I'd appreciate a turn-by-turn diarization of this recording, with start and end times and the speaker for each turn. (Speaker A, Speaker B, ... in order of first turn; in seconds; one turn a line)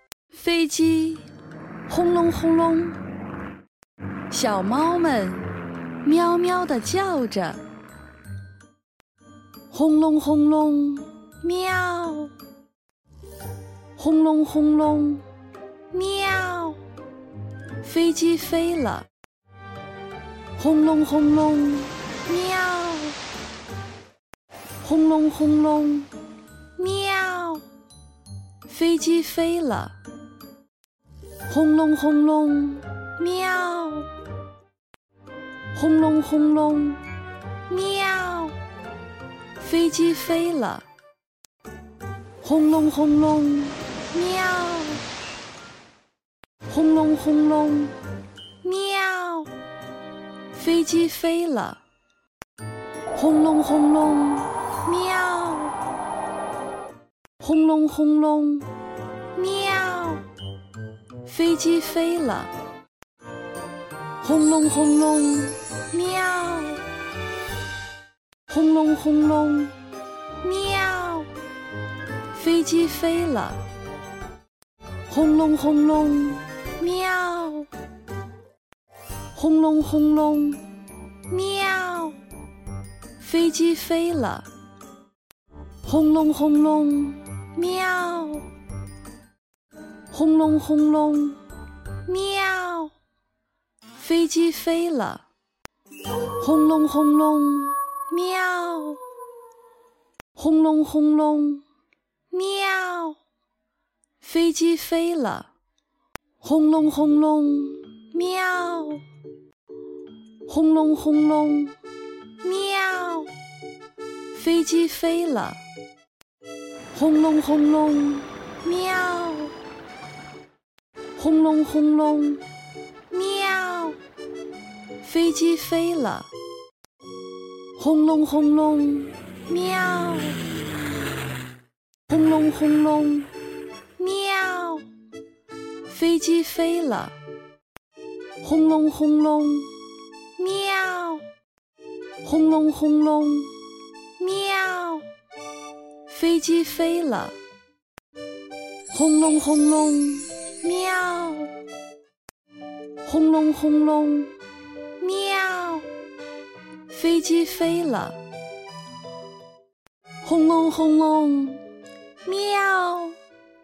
Speaker A: 0.3-1.2
Speaker A: 1.9-3.0
Speaker A: 4.3-5.5
Speaker A: 6.0-7.6
Speaker A: 9.7-12.3
Speaker A: 14.0-15.2
Speaker A: 15.9-16.8
Speaker A: 17.8-19.1
Speaker A: 20.6-23.2
Speaker A: 24.8-26.1
Speaker A: 26.7-27.7
Speaker A: 28.7-30.0
Speaker A: 31.5-34.1
Speaker A: 35.7-37.0
Speaker A: 37.6-38.6
Speaker A: 39.6-40.9
Speaker A: 42.4-45.1
Speaker A: 46.7-48.0
Speaker A: 48.6-49.5
Speaker A: 50.5-51.8
Speaker A: 53.1-55.8
Speaker A: 57.4-58.7
Speaker A: 59.3-60.3
Speaker A: 61.2-62.5
Speaker A: 64.2-66.9
Speaker A: 68.5-69.7
Speaker A: 70.4-71.3
Speaker A: 72.3-73.6
Speaker A: 75.1-77.7
Speaker A: 79.3-80.6
Speaker A: 81.2-82.2
Speaker A: 83.2-84.5
Speaker A: 85.8-88.5
Speaker A: 90.1-91.4
Speaker A: 92.0-92.9
Speaker A: 94.0-95.2
Speaker A: 96.3-99.0
Speaker A: 100.3-101.6
Speaker A: 102.3-103.2
Speaker A: 104.2-105.5
Speaker A: 106.4-109.0
Speaker A: 110.5-111.7
Speaker A: 112.4-113.3
Speaker A: 114.3-115.6
Speaker A: 116.9-119.6
Speaker A: 121.2-122.5
Speaker A: 123.1-124.0
Speaker A: 125.0-126.3
Speaker A: 127.8-130.4
Speaker A: 132.1-133.3
Speaker A: 134.0-134.9
Speaker A: 135.9-137.2
Speaker A: 138.4-139.7
Speaker A: 140.3-141.3
Speaker A: 142.2-143.5
Speaker A: 144.2-145.1
Speaker A: 146.1-147.3
Speaker A: 148.9-151.6
Speaker A: 153.0-154.3
Speaker A: 155.0-155.9
Speaker A: 156.9-158.2
Speaker A: 160.2-161.6
Speaker A: 162.2-163.2